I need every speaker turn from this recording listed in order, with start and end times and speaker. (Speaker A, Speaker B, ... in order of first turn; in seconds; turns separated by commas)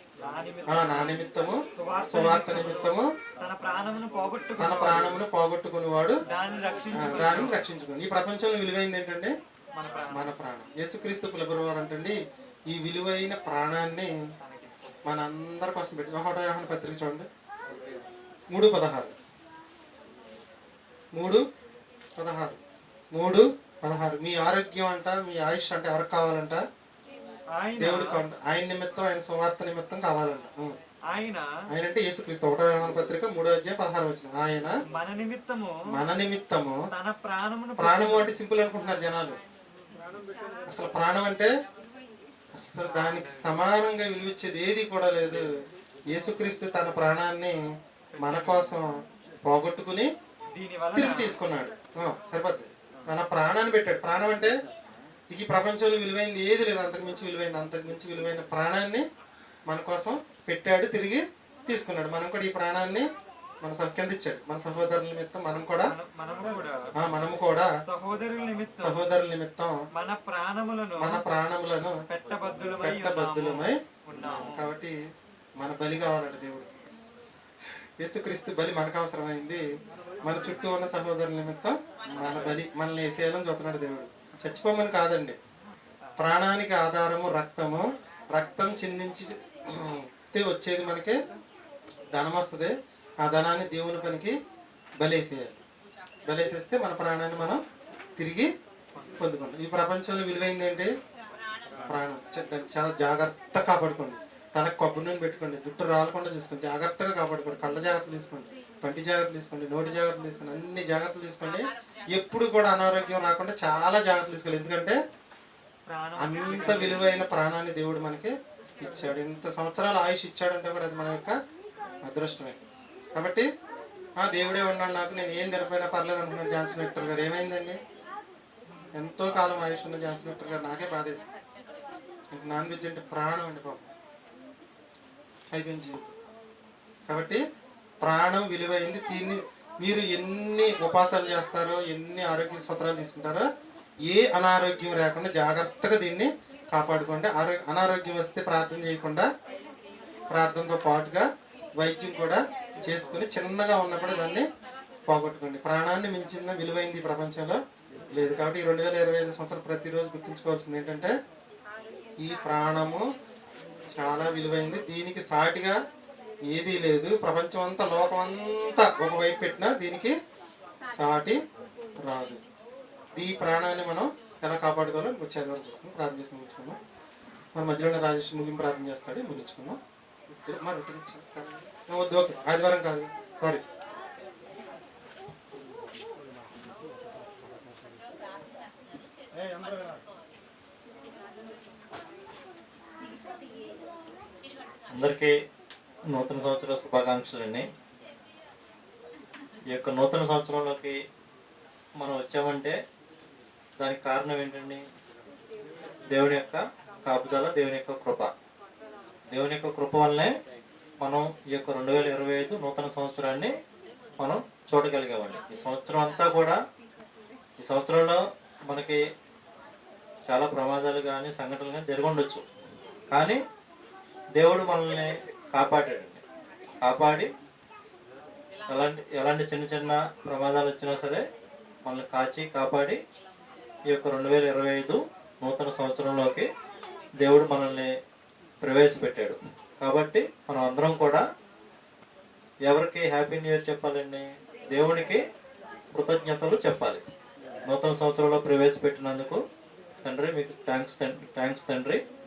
Speaker A: 0.2-1.2, Speaker B: 0.7-3.1, Speaker A: 1.8-5.2, Speaker B: 4.6-6.2, Speaker A: 6.3-7.6, Speaker B: 6.9-9.3, Speaker A: 9.7-10.3, Speaker B: 10.1-12.2, Speaker B: 12.7-14.1, Speaker A: 14.4-14.8, Speaker B: 15.1-17.3, Speaker B: 18.5-19.1, Speaker B: 21.1-21.4, Speaker B: 22.2-22.6, Speaker B: 23.1-26.6, Speaker A: 27.6-28.2, Speaker B: 27.8-30.8, Speaker A: 31.1-31.5, Speaker B: 31.7-34.8, Speaker A: 34.9-35.8, Speaker B: 35.9-36.8, Speaker A: 36.9-38.3, Speaker B: 37.8-39.4, Speaker B: 40.7-41.5, Speaker B: 42.6-45.4, Speaker B: 46.1-47.5, Speaker B: 48.2-48.9, Speaker B: 49.4-50.1, Speaker A: 50.5-51.4, Speaker B: 50.9-54.5, Speaker B: 55.3-59.0, Speaker B: 59.7-63.0, Speaker B: 63.6-65.9, Speaker A: 65.9-66.8, Speaker B: 67.0-67.7, Speaker A: 67.9-69.0, Speaker B: 68.8-69.8, Speaker A: 69.9-71.2, Speaker B: 71.0-72.0, Speaker A: 72.1-74.7, Speaker B: 72.8-74.9, Speaker B: 75.6-76.7, Speaker B: 78.0-79.6, Speaker B: 80.2-85.4, Speaker B: 86.2-91.2, Speaker B: 92.2-92.7, Speaker B: 93.2-94.3, Speaker B: 95.0-95.6, Speaker B: 96.3-97.6, Speaker B: 98.2-98.5, Speaker B: 99.2-100.9, Speaker B: 101.9-115.0, Speaker A: 115.9-117.0, Speaker B: 116.2-121.3, Speaker B: 122.1-122.6, Speaker B: 123.2-123.5, Speaker B: 124.2-127.8, Speaker B: 129.0-131.2, Speaker B: 132.3-133.9, Speaker B: 135.5-136.1, Speaker B: 137.1-137.4, Speaker B: 138.0-143.4, Speaker B: 144.1-149.3, Speaker B: 150.3-151.3, Speaker B: 151.8-154.4, Speaker B: 155.1-157.6, Speaker B: 158.1-161.1, Speaker B: 162.2-163.0, Speaker B: 164.0-165.8, Speaker B: 166.5-170.1, Speaker B: 170.9-171.4, Speaker B: 172.0-172.4, Speaker B: 173.2-176.8, Speaker B: 177.6-179.8, Speaker B: 180.3-183.6, Speaker C: 194.9-195.3, Speaker C: 196.1-197.7, Speaker C: 199.7-201.0, Speaker C: 202.0-202.8, Speaker C: 203.8-204.8, Speaker C: 206.1-208.3, Speaker C: 209.3-210.3, Speaker C: 211.0-213.5, Speaker C: 214.2-216.6, Speaker C: 217.6-219.0, Speaker C: 220.3-222.4, Speaker C: 223.1-223.4, Speaker C: 224.4-226.2, Speaker C: 226.8-227.3, Speaker C: 228.7-231.2, Speaker C: 231.8-233.0, Speaker C: 233.9-236.5, Speaker C: 237.2-237.9, Speaker C: 238.6-241.2, Speaker C: 242.6-245.2, Speaker C: 245.9-247.0, Speaker C: 247.7-249.4, Speaker C: 250.0-252.0